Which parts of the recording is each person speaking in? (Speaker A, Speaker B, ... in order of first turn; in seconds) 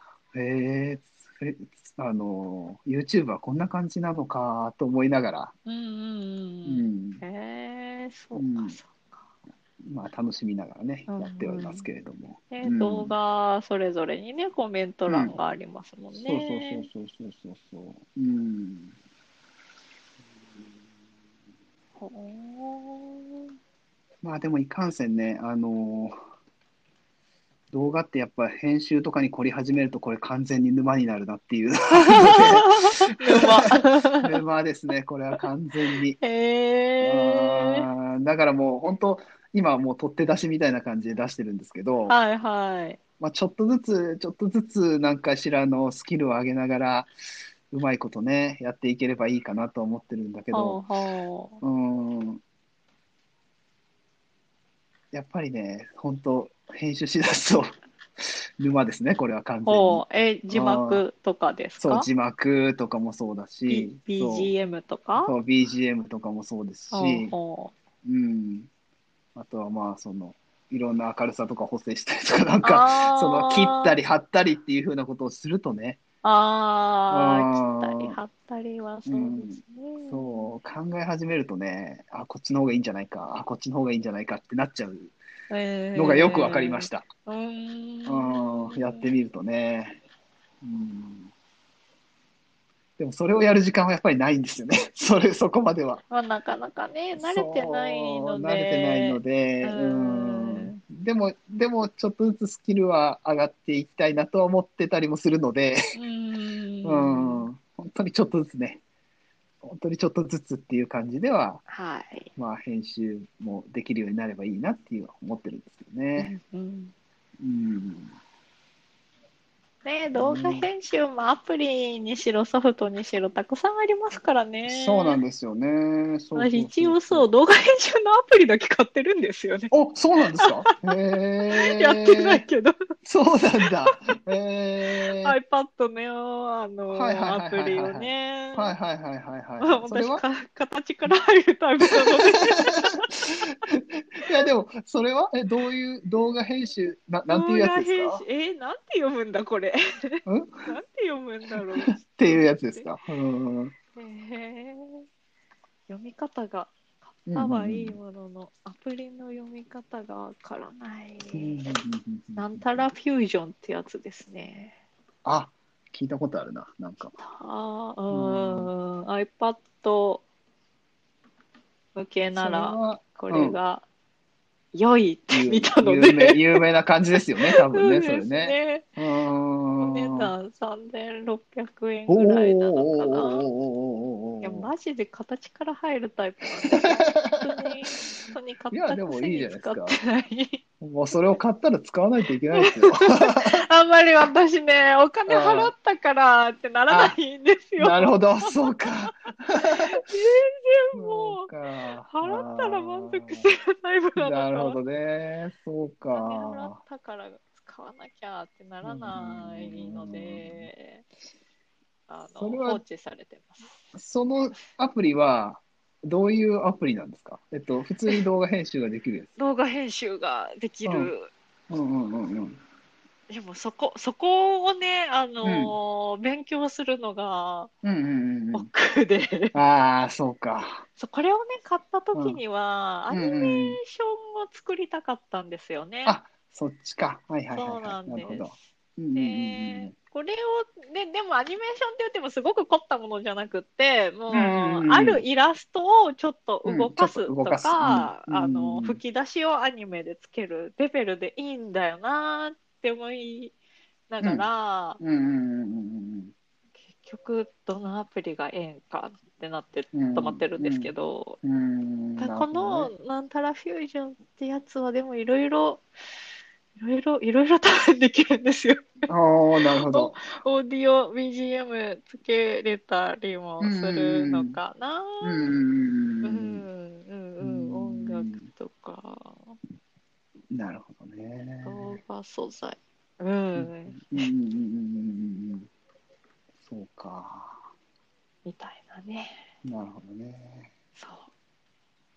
Speaker A: 0.3-5.5, 6.7-7.2, 8.3-8.8, 9.8-13.2, 15.1-15.4, 16.1-18.9, 24.2-26.2, 27.7-36.2, 37.0-42.2, 43.2-47.1, 47.7-50.8, 51.6-52.4, 55.1-57.8, 58.6-61.0, 61.8-64.5, 65.2-67.3, 68.0-68.7, 69.3-76.0, 77.1-78.2, 79.1-85.1, 86.0-87.1, 88.1-90.0, 90.6-91.3, 93.0-96.0, 97.2-105.8, 106.8-108.8, 109.6-111.6, 112.3-116.3, 117.4-118.2, 120.1-120.7, 124.7-127.3, 129.7-132.4, 133.0-135.3, 136.9-140.2, 143.7-148.2, 150.3-150.7, 152.0-153.8, 157.3-158.0, 161.3-162.9, 165.2-167.2, 168.1-168.7, 172.3-173.6, 175.3-180.3, 182.1-184.7, 186.7-187.4, 188.7-190.0, 190.8-193.6, 195.3-195.7, 196.9-197.2, 197.8-199.9, 200.9-203.4, 204.2-206.8, 208.8-210.7, 212.4-212.8, 213.9-219.3, 220.8-221.1, 221.7-222.6, 225.4-225.8, 227.8-228.7, 229.5-230.9, 232.1-232.4, 233.1-233.8, 236.1-239.9, 244.3-245.2, 246.7-249.0, 255.0-256.3, 259.9-260.9, 261.4-262.9, 269.1-270.2, 273.6-274.6, 275.2-276.6, 277.4-278.5, 280.5-282.0, 283.6-285.7, 286.6-287.6, 289.6-290.7
Speaker B: 5.7-9.1, 11.1-11.9, 12.5-16.9, 22.0-23.5, 31.9-34.3, 36.2-37.9, 42.1-43.0, 50.5-51.6, 59.7-62.1, 63.7-65.3, 66.9-67.7, 72.6-73.9, 76.2-80.5, 85.5-89.1, 96.1-100.8, 105.9-107.5, 111.7-112.3, 116.2-116.9, 119.8-125.2, 126.4-129.7, 131.6-132.8, 135.0-138.7, 139.6-143.3, 147.3-152.9, 153.9-155.1, 155.9-161.6, 162.4-164.8, 167.2-170.2, 171.9-173.8, 174.7-176.6, 177.5-178.9, 179.8-183.5, 184.4-190.6, 192.5-199.1, 199.8-201.5, 202.1-204.8, 206.1-211.1, 212.1-213.8, 219.4-221.3, 223.3-227.7, 228.5-229.6, 231.0-236.2, 237.5-238.6, 239.1-253.6, 254.1-255.0, 256.9-261.4, 262.2-265.8, 266.8-269.1, 269.6-275.5, 276.2-279.6, 281.6-284.3, 288.4-289.4, 291.0-291.3